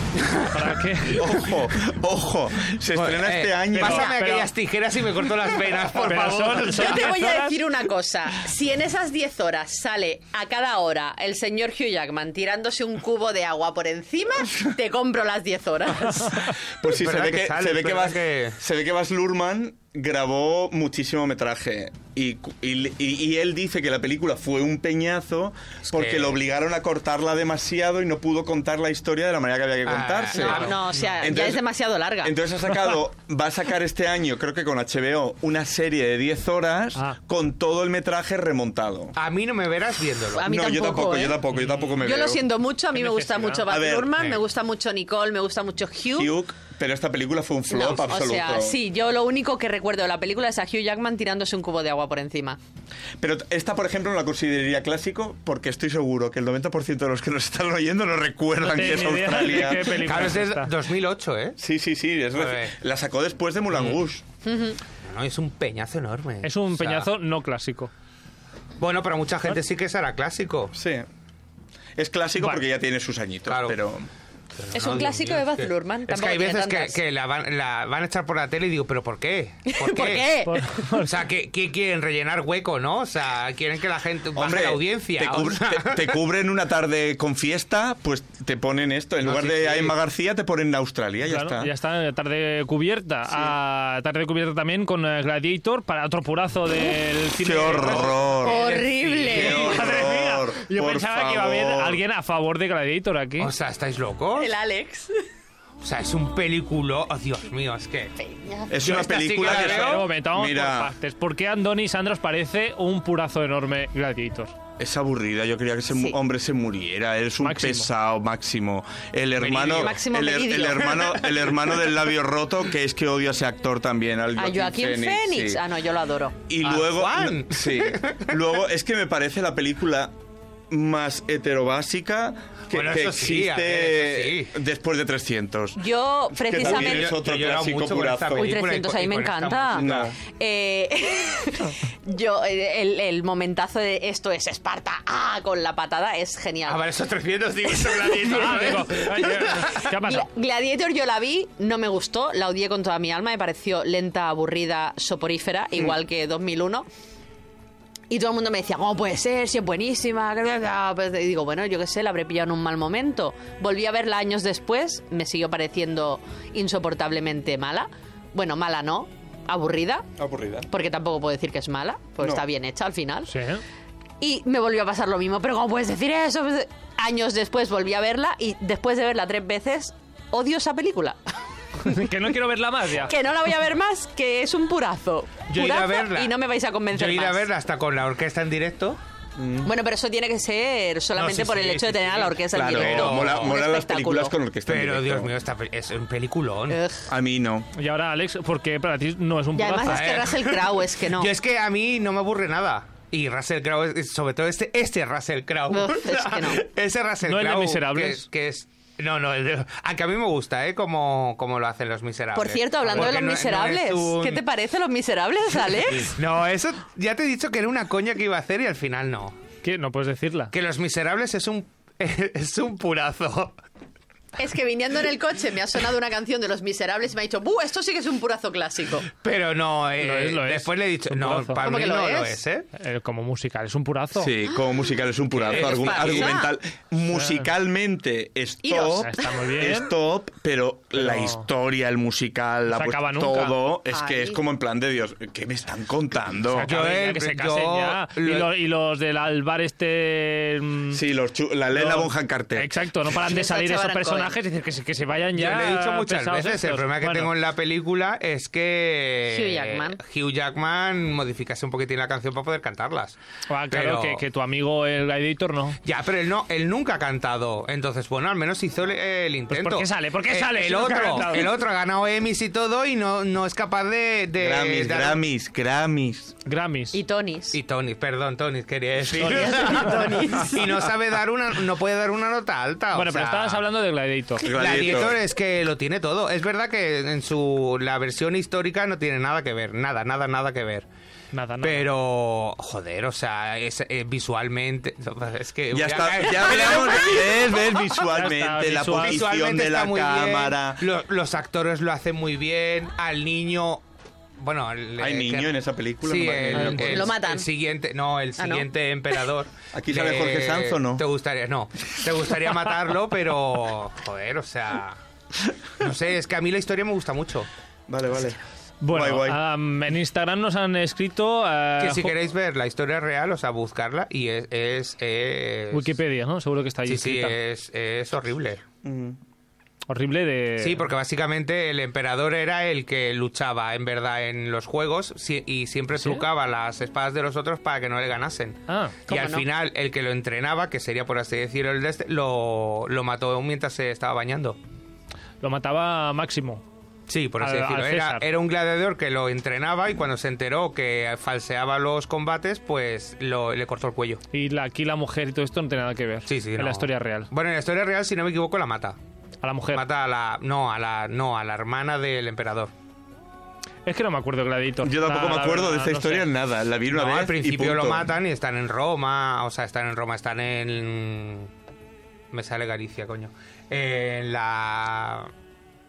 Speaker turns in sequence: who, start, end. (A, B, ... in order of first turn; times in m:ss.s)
0:00.2-0:00.6 A
0:00.4-0:01.4 B
0:01.1-0:04.1 C
0:03.0-0:07.2 A
0:03.7-0:04.5 B
0:03.9-0:04.2 D
0:05.9-0:07.6 B
0:06.5-0:16.5 D
0:16.7-0:31.6 C
0:16.8-0:18.6 A
0:25.9-0:26.4 A
0:29.9-0:31.4 A
0:30.4-0:32.4 D
0:32.2-0:39.2 C
0:39.2-0:40.5 A
0:40.3-0:41.4 D
0:40.4-0:42.5 C
0:41.5-0:41.9 B
0:42.0-0:46.3 D
0:42.9-0:43.8 B
0:43.7-0:44.2 C
0:46.1-0:48.8 C
0:47.7-0:52.6 D
0:53.2-1:00.2 C
0:58.6-1:00.7 B
0:59.4-1:01.6 A
1:01.6-1:04.2 C
1:02.4-1:02.7 A
1:03.7-1:04.0 A
1:04.4-1:04.8 D
1:05.0-1:07.1 A
1:06.4-1:07.9 B
1:08.8-1:10.7 A
1:10.7-1:11.1 C
1:12.0-1:14.1 C
1:13.5-1:13.8 A
1:14.6-1:20.3 A
1:14.7-1:17.0 D
1:19.7-1:20.9 D
1:20.5-1:21.1 B
1:20.9-1:26.2 A
1:24.4-1:31.7 C
1:29.2-1:30.0 A
1:31.2-1:38.3 B
1:37.4-1:42.0 C
1:37.7-1:39.7 A
1:38.4-1:39.8 D
1:39.3-1:43.5 B
1:43.4-1:44.5 A
1:44.4-1:45.1 D
1:45.8-1:48.2 A
1:48.2-1:48.8 D
1:48.7-1:50.9 C
1:48.8-1:50.1 A
1:49.4-1:54.6 B
1:54.8-2:05.6 C
1:57.4-1:57.9 B
1:59.4-2:00.0 A
1:59.7-2:01.2 D
2:00.9-2:01.7 A
2:04.4-2:06.4 D
2:06.5-2:10.1 C
2:06.6-2:08.4 A
2:10.7-2:18.5 C
2:12.7-2:14.6 A
2:15.8-2:17.1 D
2:16.5-2:20.1 A
2:18.3-2:26.8 D
2:19.7-2:20.2 C
2:26.6-2:29.8 A
2:27.7-2:36.9 D
2:28.3-2:30.3 B
2:38.1-2:50.1 D
2:50.2-2:50.7 C
2:50.7-2:53.3 D
2:53.3-2:53.6 B
2:54.2-3:01.2 D
3:01.8-3:03.1 B
3:03.0-3:07.5 D
3:05.5-3:06.4 A
3:06.9-3:09.0 A
3:09.4-3:09.7 C
3:09.6-3:14.4 D
3:11.2-3:13.6 A
3:12.5-3:15.3 C
3:14.7-3:16.8 A
3:16.7-3:17.1 D
3:17.1-3:17.7 C
3:17.8-3:20.2 B
3:19.6-3:21.3 D
3:19.9-3:34.4 A
3:25.7-3:26.6 D
3:27.2-3:28.2 B
3:32.3-3:36.2 D
3:35.9-3:39.4 A
3:39.6-3:40.5 B
3:40.5-3:43.6 A
3:44.4-3:49.1 D
3:49.1-3:52.7 A
3:50.0-3:51.6 B
3:51.6-3:52.4 D
3:52.7-3:54.4 B
3:54.2-4:06.7 C
3:55.5-3:56.4 A
3:55.5-3:56.5 D
3:57.1-3:57.5 B
3:58.6-3:59.3 D
3:58.9-3:59.9 B
4:01.0-4:01.4 B
4:02.7-4:03.6 B
4:03.9-4:04.4 D
4:06.5-4:11.0 B
4:06.6-4:08.5 A
4:10.9-4:12.7 C
4:11.7-4:17.3 B
4:13.1-4:14.3 D
4:15.4-4:23.2 A
4:19.3-4:20.0 D
4:23.5-4:25.8 B
4:23.7-4:24.2 A
4:25.8-4:35.2 A
4:29.5-4:31.5 B
4:34.4-4:36.4 C
4:36.4-4:37.0 B
4:36.9-4:37.6 D
4:37.5-4:43.6 A
4:39.1-4:40.8 D
4:39.2-4:40.0 B
4:42.9-4:44.5 B
4:44.4-4:45.2 C
4:44.4-4:50.9 A
4:51.3-4:51.9 B
4:51.6-4:57.4 A
4:55.7-5:00.8 C
4:58.1-4:59.2 B
4:59.0-5:03.8 A
5:04.4-5:15.0 A
5:05.0-5:07.2 C
5:06.5-5:07.0 B
5:06.9-5:07.5 D
5:08.4-5:08.7 D
5:09.7-5:11.0 C
5:15.8-5:17.5 A
5:17.9-5:19.4 C
5:18.8-5:22.1 B
5:21.8-5:26.0 A
5:25.7-5:27.4 B
5:26.9-5:28.6 A
5:28.8-5:29.2 C
5:29.9-5:30.8 B
5:30.6-5:44.6 A
5:36.0-5:36.2 B
5:38.7-5:39.0 B
5:39.1-5:39.4 D
5:45.4-5:46.6 B
5:47.1-5:54.2 A
5:47.4-5:48.2 B
5:54.3-5:57.3 B
5:56.3-5:59.0 A
5:59.4-5:59.8 B
5:59.7-6:02.7 A
6:03.9-6:06.3 B
6:04.8-6:08.1 C
6:06.9-6:11.5 A
6:12.3-6:15.3 A